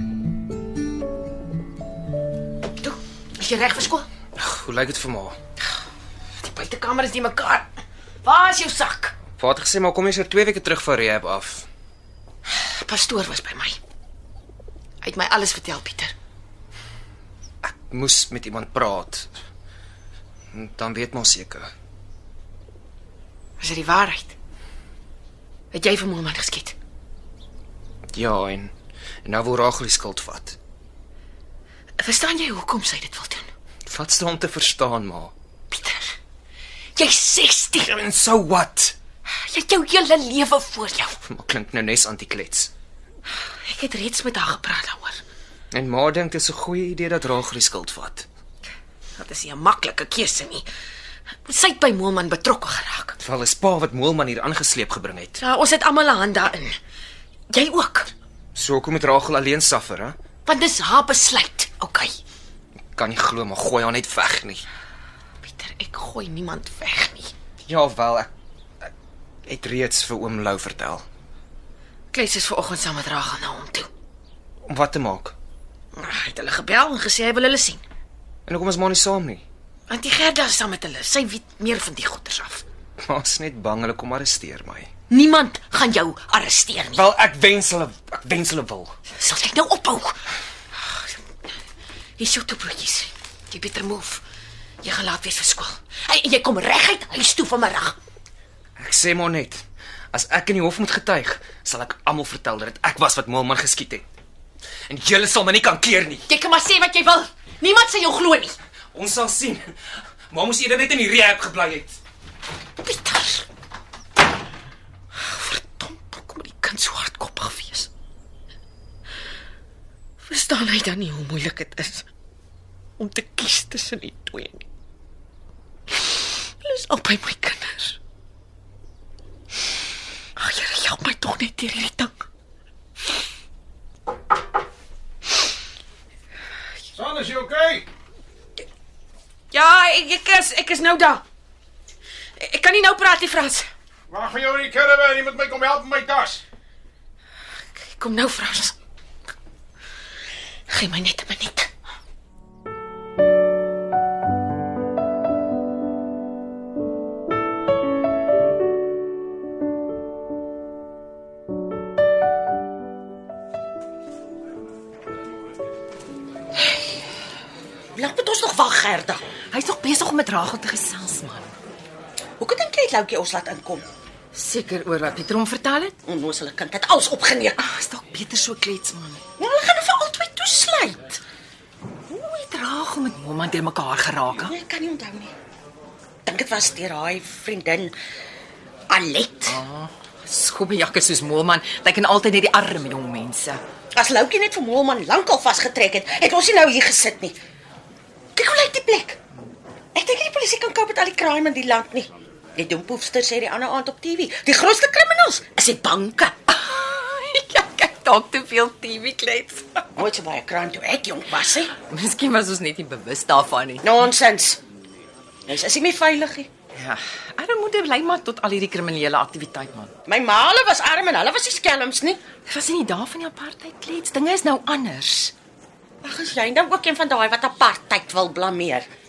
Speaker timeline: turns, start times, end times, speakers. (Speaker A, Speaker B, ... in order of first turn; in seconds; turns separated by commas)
Speaker A: 2.8-4.1, Speaker B: 4.3-5.3, Speaker A: 6.4-7.7, Speaker A: 8.2-9.1, Speaker B: 9.4-11.7, Speaker A: 12.5-13.8, Speaker A: 15.0-16.1, Speaker B: 17.6-19.3, Speaker B: 20.5-21.7, Speaker A: 23.6-24.4, Speaker A: 25.7-26.8, Speaker B: 28.1-28.7, Speaker B: 29.2-30.6, Speaker A: 32.0-33.5, Speaker B: 33.9-35.3, Speaker A: 35.7-36.1, Speaker A: 37.0-37.9, Speaker B: 37.8-39.0, Speaker A: 39.3-41.2, Speaker B: 41.2-42.7, Speaker A: 43.4-45.2, Speaker B: 45.7-48.2, Speaker A: 49.2-50.6, Speaker A: 51.4-53.2, Speaker B: 53.2-55.4, Speaker A: 55.4-56.7, Speaker A: 57.5-58.1, Speaker B: 58.5-60.1, Speaker A: 60.4-62.1, Speaker B: 63.0-64.7, Speaker A: 65.4-67.3, Speaker B: 67.7-68.3, Speaker B: 69.5-71.0, Speaker A: 72.1-73.9, Speaker B: 74.7-75.3, Speaker A: 75.9-77.8, Speaker B: 78.5-79.4, Speaker A: 79.9-82.6, Speaker B: 83.0-84.9, Speaker A: 85.1-87.0, Speaker B: 86.9-88.9, Speaker A: 89.2-90.2, Speaker A: 90.8-91.1, Speaker A: 92.2-94.2, Speaker A: 94.8-98.0, Speaker B: 98.8-104.0, Speaker B: 104.9-106.2, Speaker A: 106.3-108.6, Speaker B: 108.9-109.7, Speaker B: 110.3-112.0, Speaker A: 112.8-113.5, Speaker A: 115.1-117.9, Speaker A: 120.2-122.0, Speaker A: 123.0-124.6, Speaker A: 126.0-128.0, Speaker A: 130.4-132.3, Speaker C: 136.9-137.9, Speaker A: 139.5-141.2, Speaker A: 142.4-143.7, Speaker C: 144.1-146.4, Speaker A: 147.7-148.7, Speaker A: 150.7-151.7, Speaker D: 167.9-169.2, Speaker E: 169.5-171.5, Speaker D: 172.4-173.8, Speaker E: 174.3-175.9, Speaker D: 176.0-177.6, Speaker E: 177.6-179.2, Speaker D: 179.4-181.2, Speaker E: 182.1-184.5, Speaker D: 184.3-185.3, Speaker D: 186.2-187.9, Speaker D: 188.9-189.6, Speaker E: 189.4-193.6, Speaker D: 193.9-197.4, Speaker D: 198.3-199.2, Speaker D: 199.9-206.4, Speaker E: 206.5-209.8, Speaker D: 209.9-211.8, Speaker E: 211.8-214.0, Speaker D: 213.8-214.6, Speaker D: 215.5-216.5, Speaker E: 216.8-219.9, Speaker D: 220.1-222.2, Speaker E: 222.4-225.3, Speaker D: 226.0-228.9